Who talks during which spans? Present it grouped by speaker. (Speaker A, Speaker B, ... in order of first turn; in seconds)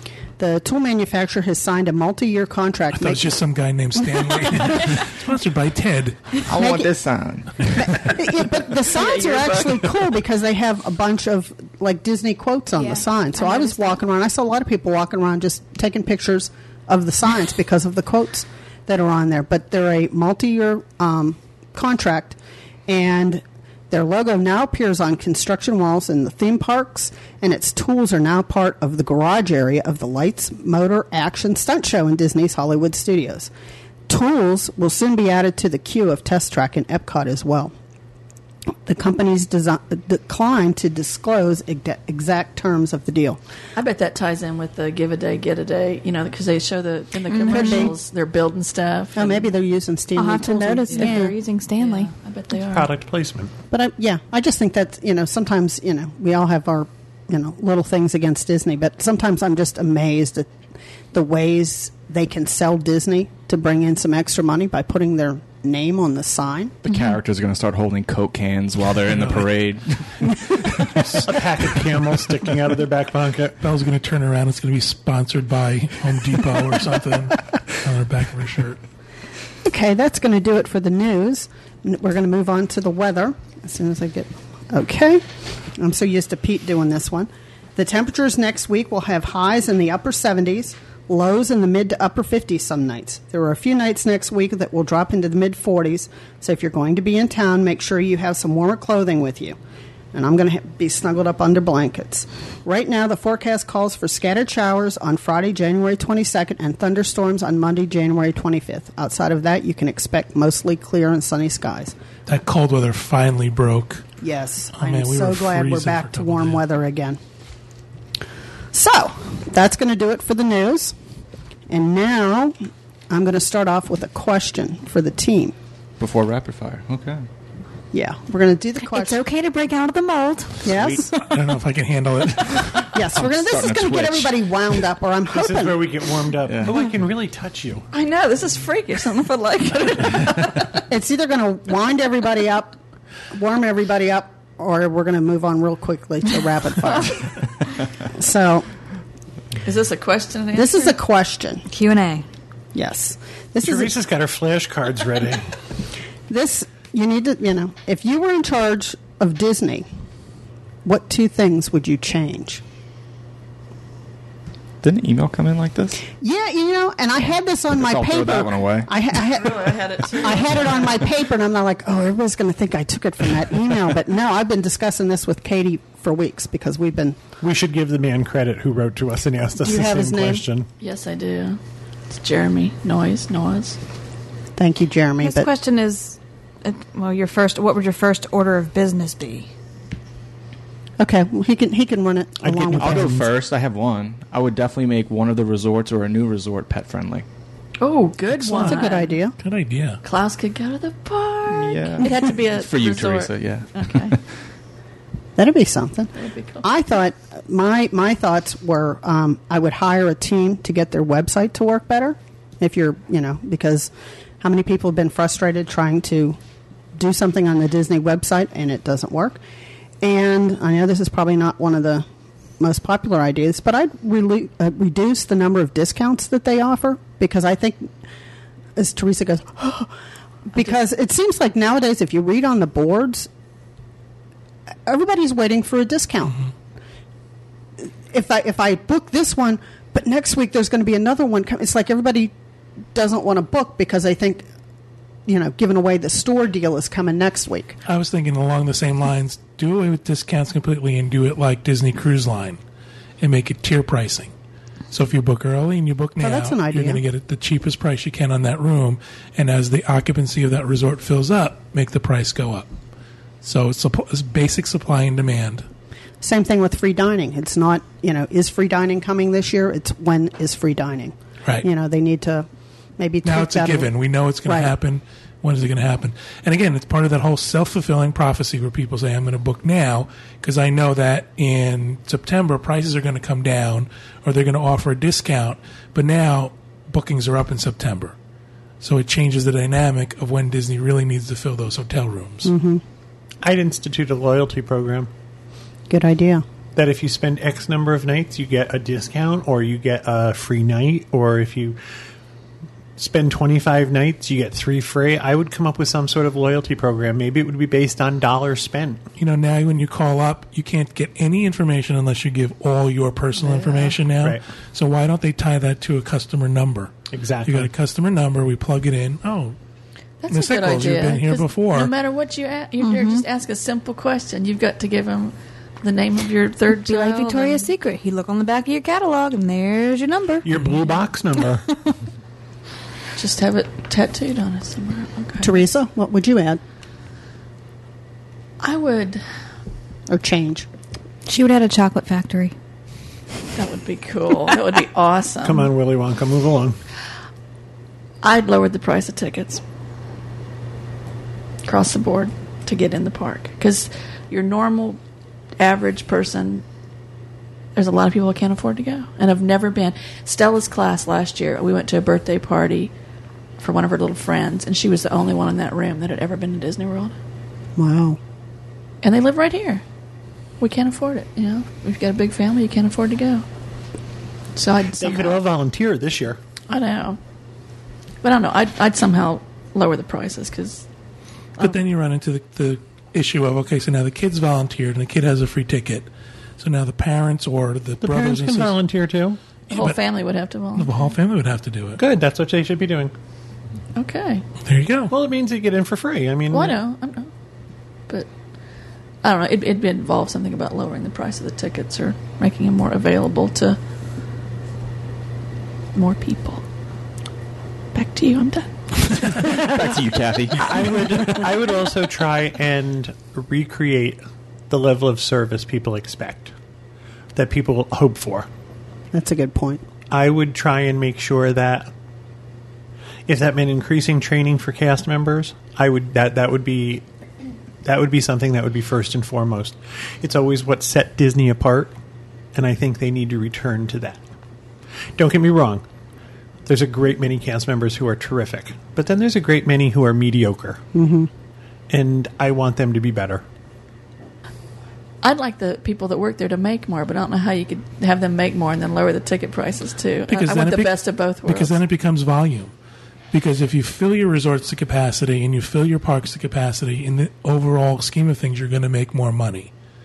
Speaker A: 0.4-3.3, 6.5-6.9, 7.8-33.5, 34.1-37.7, 38.9-43.4, 47.5-48.0, 49.2-51.4, 53.7-60.5, 61.1-66.8, 79.7-85.2, 85.8-99.6, 100.1-111.9, 114.2-117.2, 118.7-121.0, 121.7-122.5, 123.1-125.5, 127.9-129.2, 130.6-131.2, 132.9-136.0, 140.9-142.8, 143.3-147.3, 148.1-148.7, 150.5-151.7, 152.8-153.9, 156.3-159.9, 160.8-162.6, 166.2-177.2, 179.6-180.4, 184.6-185.5, 191.0-193.2, 198.5-199.4, 205.4-213.9, 214.4-216.4, 216.9-219.4, 220.0-222.1, 222.6-227.9, 228.8-229.9, 230.5-233.3, 234.9-236.4, 237.8-242.3, 242.9-244.5, 245.3-247.8, 256.2-257.0, 266.2-272.5, 273.0-273.9, 274.4-274.7, 292.4-292.8, 295.9-296.4, 335.4-336.6, 340.1-340.7, 367.8-368.2, 419.1-419.8, 440.9-441.3
Speaker B: 3.0-6.4, 73.6-78.8, 112.3-114.1, 114.7-116.6, 131.1-132.9, 198.4-198.8, 199.4-200.0, 247.9-252.6, 253.2-254.3, 254.9-262.7, 263.4-265.7, 273.2-288.1, 288.8-292.5, 309.2-316.9, 317.4-319.6, 320.3-321.9, 381.6-388.8, 389.7-390.0, 390.7-392.0, 394.6-395.1, 450.3-452.7, 453.3-459.7
Speaker C: 6.5-8.1, 66.8-71.1, 126.0-127.2, 133.2-134.4, 136.5-136.8, 164.8-166.0, 167.7-168.9, 192.5-197.3, 201.5-204.2, 409.3-411.5
Speaker D: 8.8-9.9, 43.8-49.5, 50.9-51.2, 51.8-52.9, 137.9-140.8, 149.6-151.0, 169.2-171.0, 180.8-181.6, 182.1-183.8, 197.8-199.2, 200.0-204.2, 206.2-206.7, 313.4-314.0, 320.2-327.7, 333.2-335.7, 338.6-339.2, 343.5-345.7, 348.2-349.6, 351.6-355.0, 355.6-356.6, 357.8-362.9, 363.6-367.1, 369.0-369.8, 370.6-373.4, 374.6-375.4, 376.7-377.2, 378.2-380.9, 389.7-391.0, 393.9-394.5, 396.5-397.3, 399.2-403.8, 405.9-406.6, 407.9-409.6, 445.2-451.8
Speaker E: 12.8-14.0, 47.3-47.9, 50.2-52.1, 128.9-130.7, 151.7-152.3, 185.2-189.5, 322.8-323.2, 326.7-331.6, 341.3-342.5
Speaker F: 52.7-53.5, 71.2-73.6, 135.3-137.8, 153.6-155.5, 177.4-180.7, 192.8-193.1, 293.4-295.1, 296.8-301.8, 303.0-309.0, 314.2-314.4, 317.1-317.7, 330.4-331.6, 345.4-346.8, 375.0-376.4, 388.0-389.4, 392.0-393.1, 395.1-396.8, 410.5-416.5, 417.4-418.5, 420.1-421.9, 423.3-427.1, 427.9-431.9, 432.6-434.2, 435.2-435.8, 436.7-440.8, 441.9-443.4